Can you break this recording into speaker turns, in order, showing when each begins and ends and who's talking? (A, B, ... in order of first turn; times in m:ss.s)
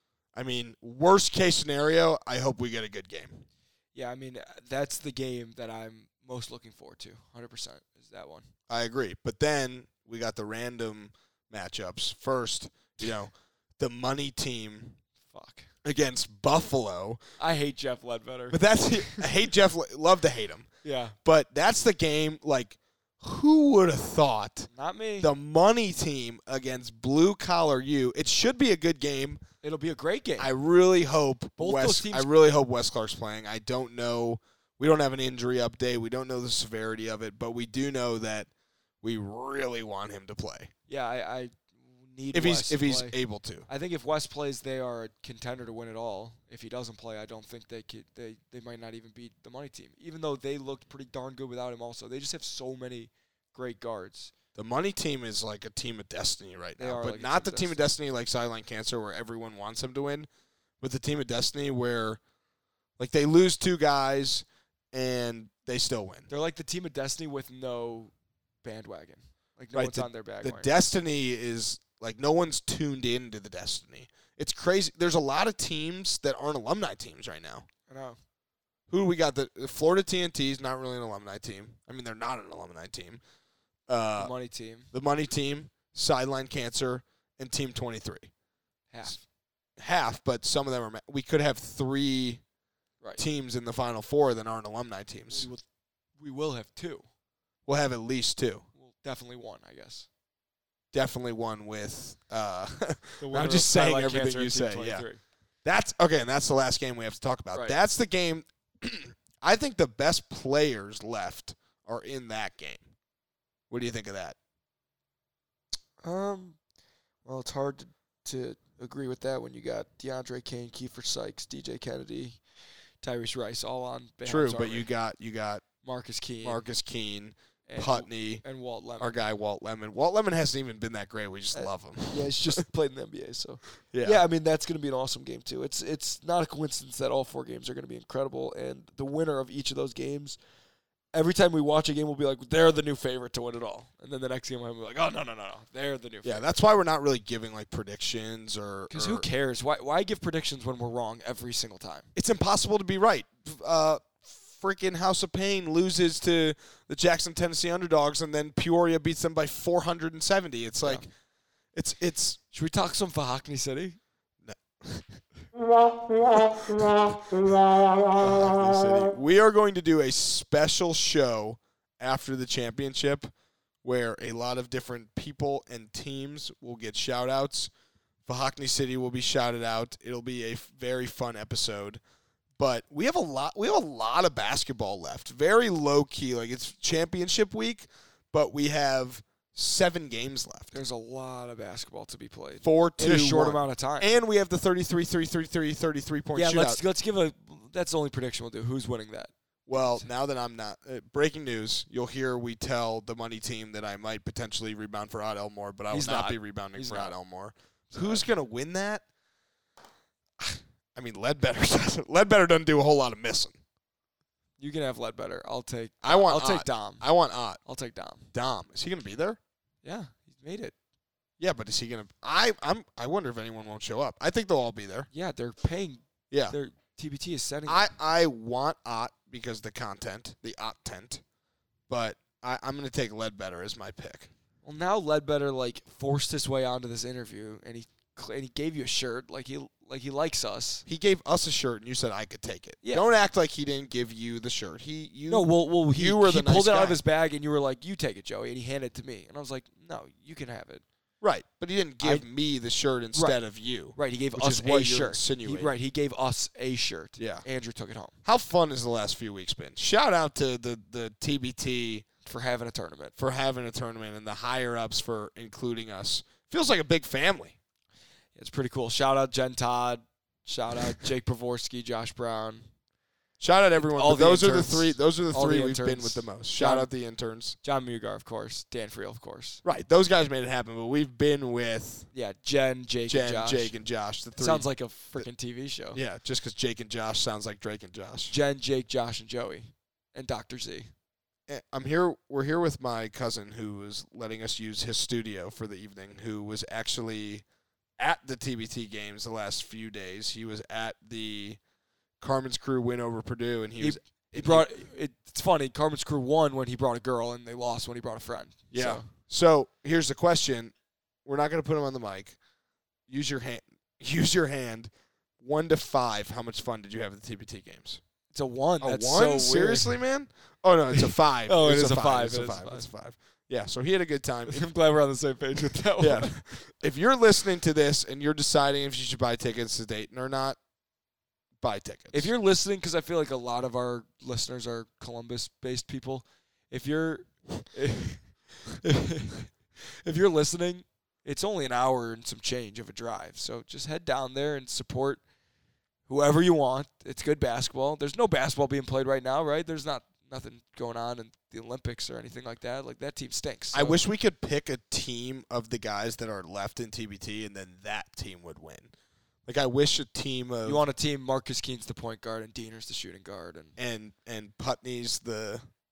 0:00.4-0:03.4 A
0:04.0-0:08.5 B
0:08.7-0:15.0 A
0:15.3-0:15.7 B
0:15.8-0:17.2 A
0:17.4-0:19.3 B
0:18.5-0:20.7 A
0:20.8-0:21.2 B
0:21.2-0:24.7 A
0:24.7-0:25.3 B
0:25.2-0:29.4 A
0:29.6-0:30.5 B
0:30.4-0:38.5 A
0:31.6-0:32.3 B
0:39.0-0:40.7 A
0:40.9-0:54.3 B
0:42.3-0:43.7 A
0:54.6-1:00.3 A
0:56.8-0:57.8 B
1:00.8-1:02.2 A
1:03.0-1:06.3 A
1:06.3-1:10.7 B
1:09.7-1:17.7 A
1:17.9-1:18.2 B
1:18.9-1:23.2 A
1:23.9-1:24.3 A
1:24.2-1:24.9 B
1:24.9-1:28.3 A
1:28.9-1:29.2 B
1:29.8-1:32.4 A
1:33.2-1:35.5 A
1:35.3-1:35.6 B
1:36.2-1:37.0 B
1:37.7-1:38.7 A
1:38.8-1:40.1 B
1:40.9-1:45.1 A
1:43.2-1:45.2 B
1:45.6-1:52.9 A
1:53.7-1:54.4 A
1:56.0-1:56.6 B
1:57.2-2:02.4 B
2:03.0-2:04.9 B
2:04.2-2:05.6 A
2:05.8-2:06.7 B
2:06.4-2:08.4 A
2:07.7-2:09.2 B
2:09.0-2:12.6 A
2:11.5-2:20.4 B
2:13.9-2:14.2 A
2:21.1-2:26.5 B
2:26.2-2:29.3 A
2:28.9-2:32.1 B
2:32.2-2:41.0 A
2:40.8-2:41.1 B
2:41.7-2:42.4 A
2:42.5-2:44.0 B
2:44.4-2:45.2 A
2:46.2-2:47.1 A
2:48.1-2:53.3 A
2:48.2-2:48.7 B
2:53.8-2:57.7 A
2:58.3-3:02.0 A
3:02.6-3:10.7 A
3:10.7-3:14.1 B
3:12.6-3:16.8 A
3:16.4-3:20.1 B
3:19.7-3:29.0 A
3:25.9-3:27.2 B
3:27.9-3:28.3 B
3:30.4-3:33.6 A
3:34.6-3:37.1 B
3:36.0-3:37.6 A
3:37.6-3:38.3 B
3:38.3-3:39.4 A
3:39.8-3:40.7 B
3:41.4-3:45.1 A
3:45.1-3:47.9 B
3:46.3-3:46.6 A
3:47.7-3:51.2 A
3:51.9-3:54.3 A
3:54.6-4:00.8 B
4:00.9-4:07.0 A
4:02.8-4:03.1 B
4:05.3-4:10.8 B
4:11.2-4:15.7 A
4:12.0-4:12.3 B
4:13.9-4:18.2 B
4:17.2-4:17.5 A
4:18.2-4:22.1 A
4:22.2-4:23.1 B
4:23.2-4:27.6 A
4:28.4-4:32.7 B
4:33.4-4:37.6 A
4:33.8-4:36.9 B
4:37.6-4:39.6 B
4:39.6-4:42.1 A
4:42.1-4:43.8 B
4:43.1-4:45.3 A
4:44.4-4:46.0 B
4:45.9-4:48.4 A
4:48.3-4:50.9 B
4:51.5-4:57.4 A
4:58.0-5:01.6 A
5:02.2-5:04.7 A
5:03.8-5:09.1 B
5:08.7-5:10.7 A
5:11.2-5:12.4 A
5:13.1-5:18.0 A
5:18.3-5:20.0 B
5:18.8-5:24.7 A
5:21.5-5:22.9 B
5:24.5-5:26.6 B
5:26.0-5:30.6 A
5:31.6-5:32.3 A
5:32.1-5:45.2 B
5:46.1-5:54.0 B
5:53.7-5:58.9 A
5:59.5-6:00.8 A
6:00.6-6:03.8 B
6:03.8-6:05.7 A